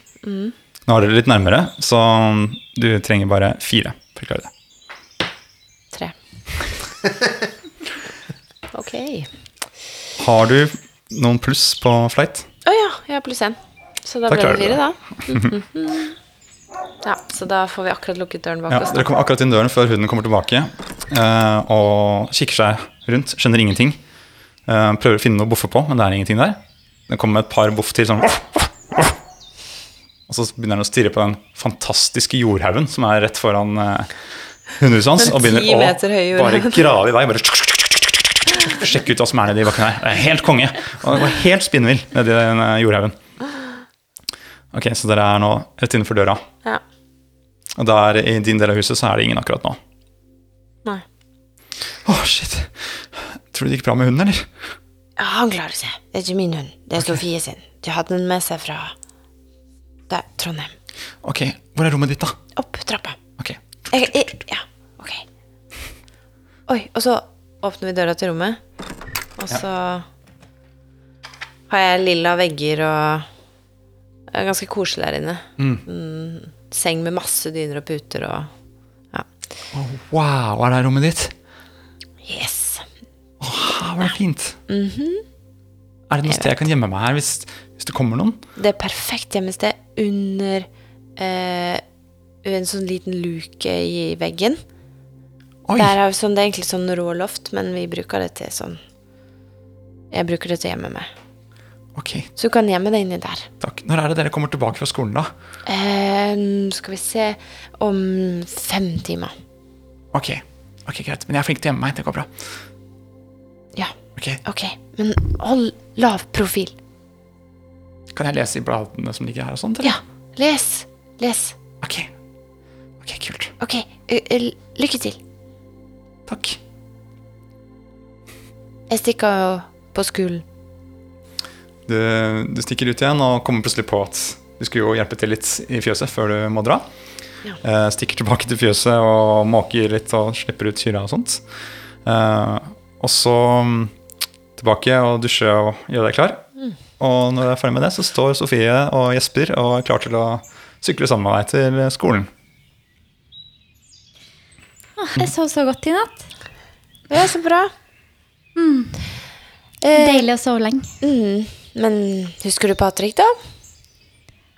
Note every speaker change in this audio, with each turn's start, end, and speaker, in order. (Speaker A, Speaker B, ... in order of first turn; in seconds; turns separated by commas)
Speaker A: 0.2-0.5, Speaker B: 0.9-4.5, Speaker A: 8.7-9.3, Speaker B: 10.2-12.5, Speaker A: 12.7-16.2, Speaker B: 14.3-15.5, Speaker A: 17.0-19.1, Speaker B: 18.7-24.0, Speaker B: 24.7-29.2, Speaker B: 30.3-43.1, Speaker A: 35.2-36.8, Speaker B: 44.7-46.4, Speaker B: 47.8-49.8, Speaker B: 52.0-54.7, Speaker A: 55.2-59.0, Speaker A: 60.1-60.8, Speaker B: 61.2-62.4, Speaker A: 62.6-63.2, Speaker B: 63.4-64.3, Speaker A: 63.9-65.3, Speaker A: 66.7-68.6, Speaker A: 69.4-70.1, Speaker A: 71.7-73.3, Speaker A: 74.3-78.5, Speaker B: 75.6-75.8, Speaker B: 79.7-81.3, Speaker A: 82.2-82.9, Speaker B: 83.4-84.6, Speaker A: 84.7-85.2, Speaker B: 86.1-88.4, Speaker A: 86.3-86.5, Speaker A: 88.6-91.8, Speaker A: 92.4-94.6, Speaker B: 95.7-95.9, Speaker A: 95.8-98.8, Speaker A: 100.1-101.1, Speaker B: 102.0-102.3, Speaker A: 102.4-103.5, Speaker B: 103.6-105.3, Speaker A: 105.7-109.3, Speaker B: 110.1-112.6, Speaker A: 113.8-116.8, Speaker B: 114.2-114.4, Speaker B: 118.1-120.0, Speaker A: 119.8-121.6, Speaker B: 121.8-122.1, Speaker B: 123.0-123.5, Speaker A: 123.6-125.2, Speaker B: 126.3-126.6, Speaker A: 128.9-130.4, Speaker B: 131.9-136.8, Speaker B: 137.6-141.4, Speaker B: 142.1-143.9, Speaker B: 144.6-146.4, Speaker B: 147.0-152.3, Speaker C: 155.0-156.3, Speaker A: 157.1-157.7, Speaker C: 158.6-159.1, Speaker A: 159.8-160.3, Speaker C: 159.9-160.9, Speaker A: 161.0-163.4